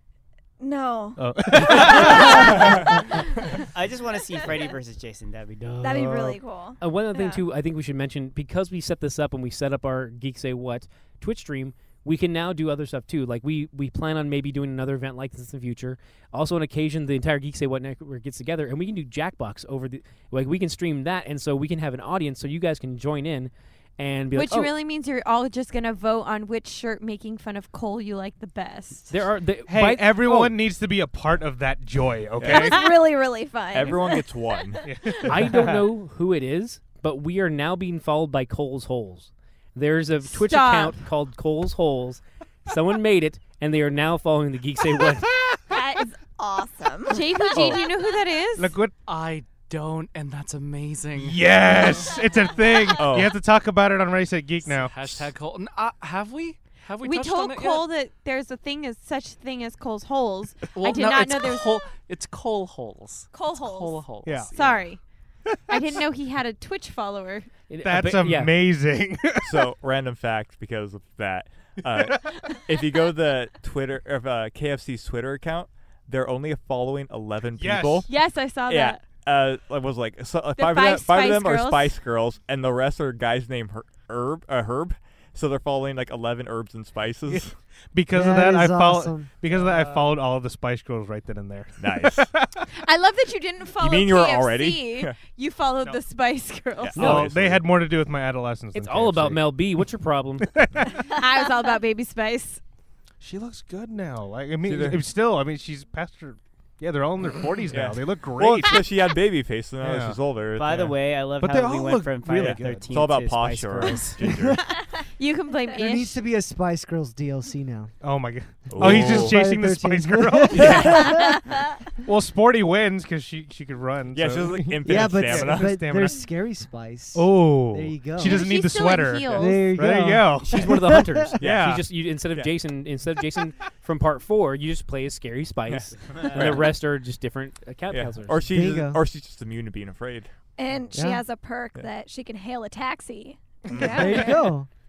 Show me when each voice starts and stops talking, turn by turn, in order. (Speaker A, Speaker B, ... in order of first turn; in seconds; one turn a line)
Speaker A: 0.6-3.4
Speaker B: 1.1-2.8
Speaker C: 3.7-6.2
Speaker A: 5.8-7.4
Speaker B: 5.8-6.4
Speaker D: 6.8-24.7
Speaker E: 24.3-29.2
Speaker D: 29.1-30.6
Speaker B: 29.7-32.8
Speaker F: 32.4-32.9
Speaker A: 32.4-34.6
Speaker F: 33.7-34.9
Speaker B: 34.8-35.8
Speaker D: 35.2-45.5
Speaker E: 40.3-41.0
Speaker A: 45.7-47.8
Speaker E: 47.1-48.7
Speaker B: 48.6-48.9
Speaker G: 49.0-51.6
Speaker B: 51.2-55.3
Speaker F: 53.0-53.3
Speaker G: 54.6-57.9
Speaker E: 57.0-61.9
Speaker G: 60.7-64.9
Speaker E: 63.3-65.0
Speaker B: 64.2-64.8
Speaker B: 65.5-65.8
Speaker E: 65.7-67.5
Speaker D: 67.7-68.6
Speaker B: 67.8-69.7
Speaker F: 69.4-78.1
Speaker B: 77.6-78.1
Speaker E: 78.1-79.0
Speaker F: 78.7-87.6
Speaker E: 80.5-82.0
Speaker B: 87.9-92.6
Speaker H: 88.1-89.3
Speaker F: 91.8-92.3
Speaker E: 92.7-97.1
Speaker F: 93.8-95.2
Speaker F: 96.8-97.6
Speaker D: 97.0-97.3
Speaker B: 97.0-99.9
Speaker D: 98.7-100.6
Speaker B: 100.5-100.8
Speaker E: 101.0-102.6
Speaker B: 103.2-108.9
Speaker F: 104.6-105.0
Speaker F: 107.7-110.8
Speaker B: 109.8-112.9
Speaker C: 110.5-114.3
Speaker F: 112.3-114.6
Speaker E: 115.0-116.2
Speaker H: 115.8-117.9
Speaker B: 118.0-121.2
Speaker F: 118.7-119.4
Speaker H: 118.8-121.5
Speaker F: 120.5-121.1
Speaker B: 122.0-126.3
Speaker F: 124.1-125.8
Speaker H: 124.8-128.5
Speaker B: 127.1-131.9
Speaker E: 128.2-129.7
Speaker H: 129.3-131.4
Speaker D: 130.3-138.5
Speaker F: 131.4-132.5
Speaker F: 135.7-136.7
Speaker C: 136.2-136.6
Speaker F: 137.9-140.3
Speaker H: 138.4-139.0
Speaker A: 140.6-144.5
Speaker H: 140.9-141.2
Speaker H: 143.7-144.7